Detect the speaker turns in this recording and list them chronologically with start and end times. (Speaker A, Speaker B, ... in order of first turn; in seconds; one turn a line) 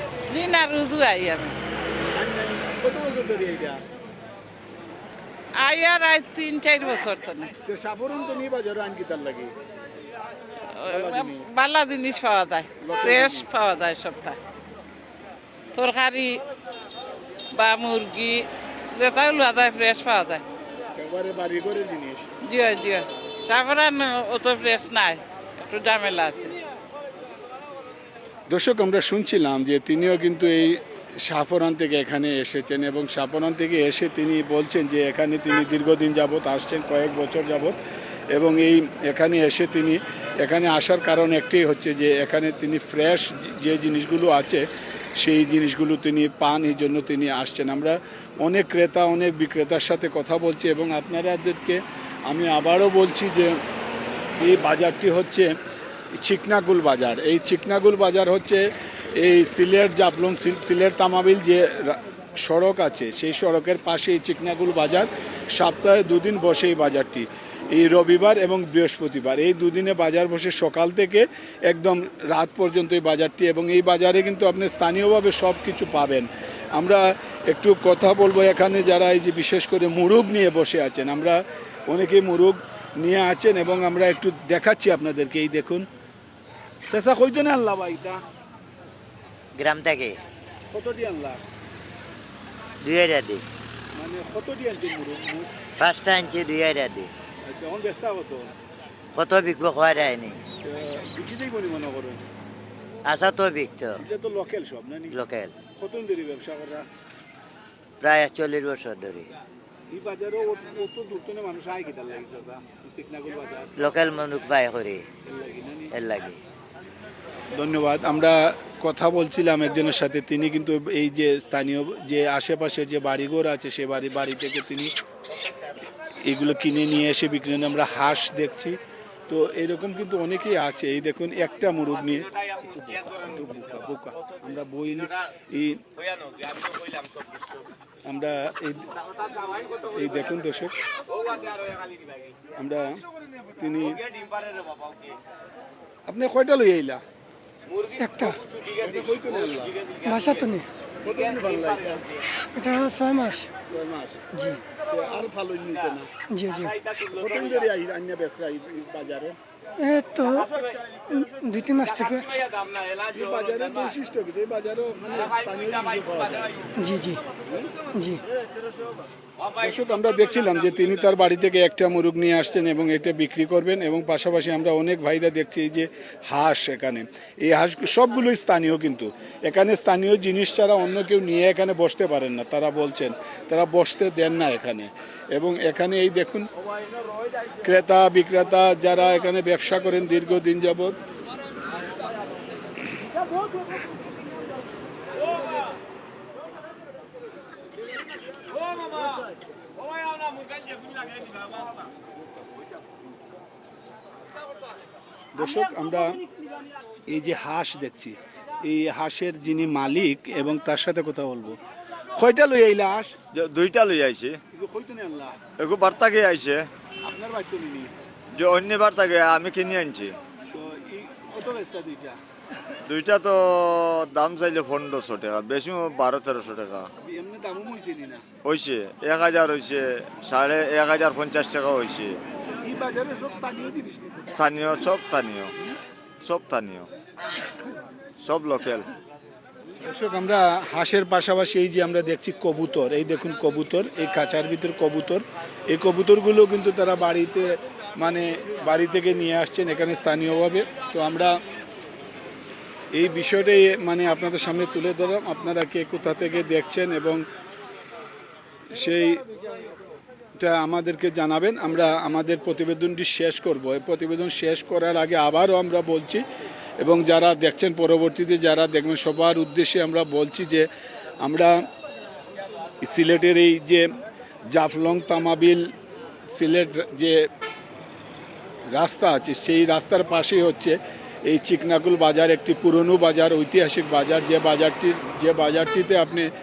Speaker A: 0.3-1.5
Speaker B: 2.1-3.8
Speaker A: 5.6-7.5
Speaker B: 7.7-9.5
Speaker A: 10.7-14.4
Speaker B: 10.9-11.5
Speaker B: 12.8-13.5
Speaker A: 15.7-16.4
Speaker A: 17.5-20.4
Speaker B: 20.9-22.3
Speaker A: 22.4-26.5
Speaker B: 28.5-37.7
Speaker B: 38.3-44.6
Speaker B: 45.2-53.6
Speaker B: 54.4-55.5
Speaker B: 56.2-58.6
Speaker B: 59.2-85.9
Speaker B: 86.9-88.2
Speaker C: 89.5-90.2
Speaker B: 90.7-91.4
Speaker C: 92.8-93.4
Speaker B: 94.0-95.5
Speaker C: 95.8-97.1
Speaker B: 97.4-98.5
Speaker C: 99.1-100.4
Speaker B: 100.6-102.2
Speaker C: 103.0-104.0
Speaker B: 104.0-105.1
Speaker C: 105.1-105.5
Speaker B: 105.8-106.9
Speaker C: 108.0-109.3
Speaker B: 109.9-113.7
Speaker C: 113.8-115.0
Speaker B: 115.2-115.9
Speaker C: 115.9-116.4
Speaker B: 117.5-124.9
Speaker B: 126.2-135.8
Speaker B: 138.1-138.9
Speaker B: 139.9-140.7
Speaker B: 142.6-143.0
Speaker B: 143.6-144.0
Speaker B: 146.1-147.0
Speaker D: 148.0-148.3
Speaker B: 148.8-149.7
Speaker D: 150.0-150.6
Speaker B: 151.0-152.1
Speaker D: 152.5-153.5
Speaker B: 153.7-154.2
Speaker D: 154.3-154.6
Speaker B: 154.9-156.1
Speaker D: 156.3-156.8
Speaker B: 157.1-159.4
Speaker D: 159.8-160.5
Speaker D: 161.1-162.3
Speaker B: 163.0-166.6
Speaker D: 166.8-167.2
Speaker D: 167.9-168.2
Speaker B: 169.6-186.5
Speaker B: 187.6-190.9
Speaker B: 205.3-206.2
Speaker B: 207.1-211.6
Speaker B: 212.2-213.1
Speaker E: 213.3-214.4
Speaker B: 214.5-215.4
Speaker E: 215.6-216.7
Speaker B: 217.0-217.9
Speaker E: 218.3-220.1
Speaker B: 220.5-222.2
Speaker E: 222.9-226.9
Speaker B: 227.0-228.2
Speaker E: 228.4-232.2
Speaker B: 232.6-234.3
Speaker E: 234.3-235.5
Speaker E: 236.2-236.9
Speaker E: 238.2-238.9
Speaker B: 239.8-251.3
Speaker B: 252.9-257.2
Speaker B: 258.7-259.2
Speaker B: 260.4-266.2
Speaker B: 266.8-270.7
Speaker B: 271.2-271.6
Speaker B: 272.8-273.9
Speaker B: 274.5-275.7
Speaker B: 276.3-277.2
Speaker B: 278.7-286.3